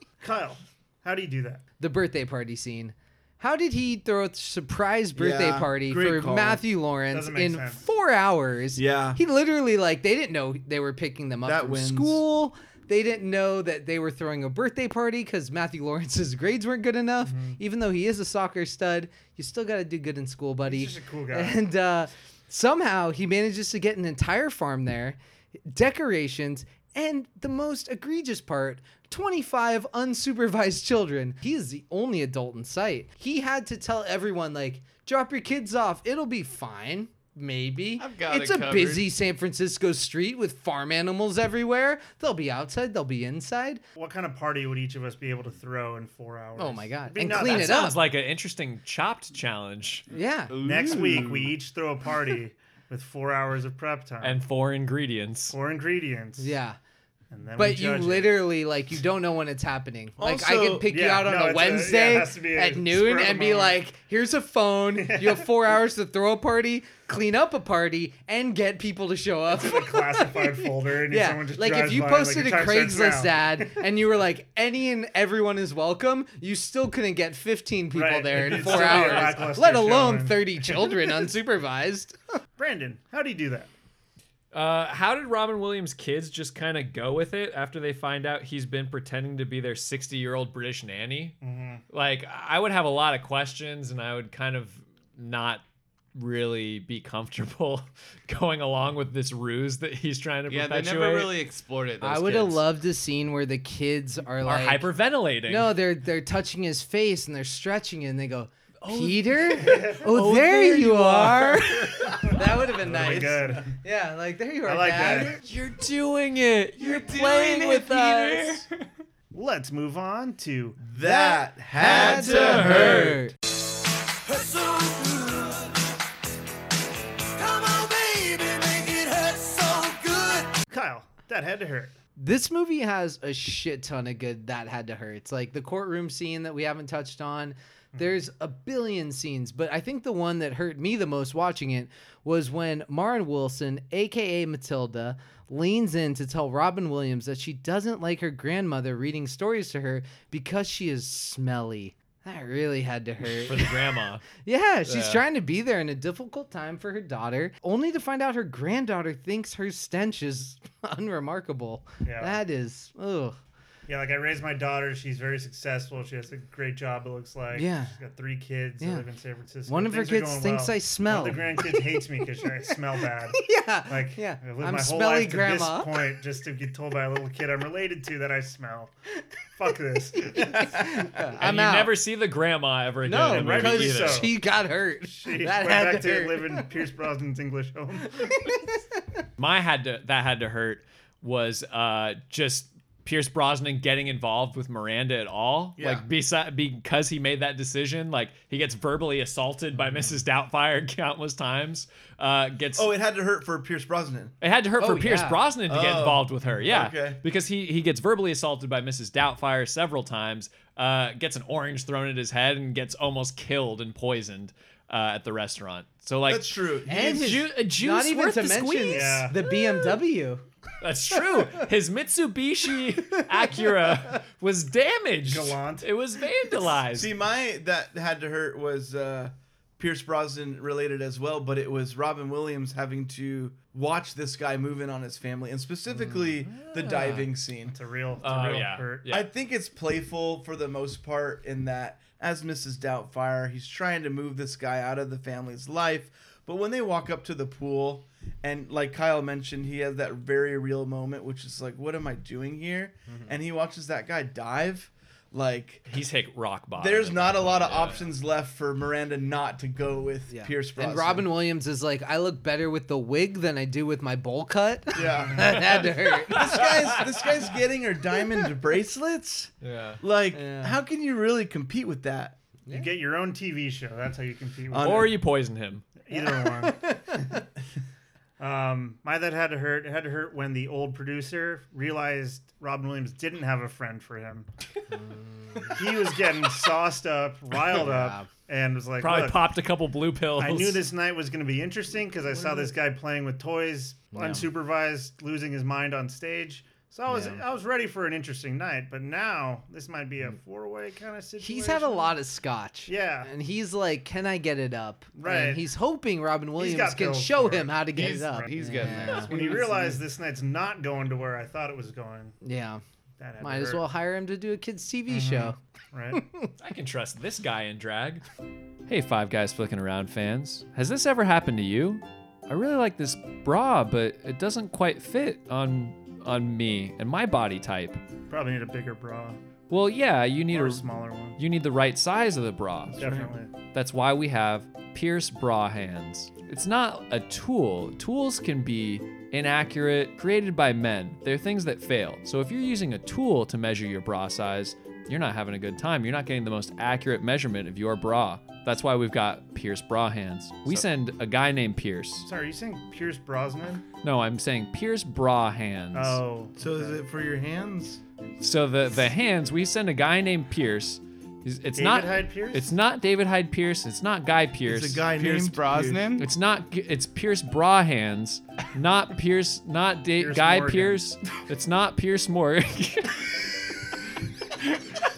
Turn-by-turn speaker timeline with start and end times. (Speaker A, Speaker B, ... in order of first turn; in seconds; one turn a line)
Speaker A: 0.2-1.6
Speaker B: 1.8-43.8
Speaker C: 5.2-6.6
Speaker A: 7.1-7.8
Speaker C: 8.7-9.2
Speaker C: 11.4-12.2
Speaker A: 17.2-17.6
Speaker A: 20.6-21.6
Speaker D: 38.0-39.1
Speaker A: 44.0-47.9
Speaker B: 46.5-48.0
Speaker E: 47.4-50.1
Speaker B: 50.1-50.5
Speaker D: 50.5-51.5
Speaker A: 50.6-54.4
Speaker E: 54.2-55.5
Speaker A: 55.5-56.6
Speaker B: 56.4-56.8
Speaker A: 57.3-58.4
Speaker B: 57.5-82.2
Speaker C: 60.2-60.9
Speaker A: 60.9-63.8
Speaker A: 64.9-65.5
Speaker A: 69.5-73.8
Speaker A: 77.9-81.2
Speaker E: 78.4-79.6
Speaker A: 82.5-83.7
Speaker E: 84.5-91.3
Speaker A: 91.4-91.8
Speaker E: 91.9-95.6
Speaker E: 96.1-101.4
Speaker D: 100.5-102.6
Speaker B: 102.0-104.9
Speaker E: 104.4-105.7
Speaker B: 105.5-115.4
Speaker E: 108.8-112.2
Speaker A: 109.7-110.0
Speaker A: 112.4-113.7
Speaker A: 114.6-115.4
Speaker E: 115.4-118.6
Speaker D: 116.8-118.6
Speaker A: 119.3-121.2
Speaker C: 120.8-123.3
Speaker B: 121.8-123.3
Speaker E: 122.2-123.1
Speaker A: 130.7-131.9
Speaker B: 132.2-153.8
Speaker A: 137.9-138.2
Speaker E: 153.2-154.2
Speaker B: 154.4-163.4
Speaker E: 154.8-155.2
Speaker A: 162.0-162.4
Speaker A: 163.9-178.9
Speaker B: 167.5-167.9
Speaker B: 168.8-169.0
Speaker B: 169.7-171.8
Speaker B: 173.3-176.0
Speaker A: 179.6-181.0
Speaker B: 180.3-181.9
Speaker E: 181.4-184.3
Speaker B: 183.0-186.7
Speaker A: 183.1-184.4
Speaker A: 185.2-188.3
Speaker B: 188.2-188.6
Speaker E: 189.4-202.9
Speaker C: 195.8-196.0
Speaker C: 202.8-204.3
Speaker E: 204.4-219.2
Speaker B: 204.8-205.4
Speaker C: 205.7-207.2
Speaker C: 216.3-217.4
Speaker B: 216.9-220.4
Speaker A: 218.9-219.4
Speaker E: 220.8-227.1
Speaker A: 225.2-225.9
Speaker C: 226.9-237.7
Speaker E: 236.5-237.3
Speaker A: 237.7-239.1
Speaker E: 238.2-239.3
Speaker C: 239.1-255.8
Speaker E: 255.9-258.1
Speaker C: 256.8-261.3
Speaker B: 260.3-266.6
Speaker C: 264.9-265.7
Speaker A: 265.1-265.3
Speaker C: 266.3-272.4
Speaker E: 266.5-267.2
Speaker E: 269.6-270.0
Speaker B: 270.3-270.8
Speaker A: 272.7-275.1
Speaker C: 274.7-275.1
Speaker E: 274.8-275.9
Speaker A: 276.0-277.4
Speaker B: 276.1-277.0
Speaker A: 278.4-284.5
Speaker B: 284.9-285.7
Speaker A: 285.7-289.4
Speaker B: 287.6-288.3
Speaker E: 289.0-290.8
Speaker A: 290.4-302.1
Speaker B: 297.1-297.4
Speaker B: 301.4-309.3
Speaker A: 302.9-303.3
Speaker A: 305.1-305.7
Speaker A: 306.6-312.4
Speaker D: 307.9-310.0
Speaker B: 312.4-312.8
Speaker A: 313.2-313.9
Speaker B: 313.4-315.6
Speaker A: 315.1-316.2
Speaker B: 316.1-316.5
Speaker E: 316.6-318.2
Speaker E: 318.9-328.0
Speaker A: 328.3-329.4
Speaker E: 329.7-330.8
Speaker A: 330.5-331.4
Speaker E: 331.4-352.3
Speaker A: 332.9-333.5
Speaker A: 352.2-353.8
Speaker E: 354.0-356.2
Speaker A: 355.9-357.0
Speaker C: 356.6-358.0
Speaker E: 358.4-365.1
Speaker A: 361.7-362.7
Speaker C: 364.6-366.1
Speaker D: 365.2-366.2
Speaker E: 366.2-373.3
Speaker A: 370.1-371.0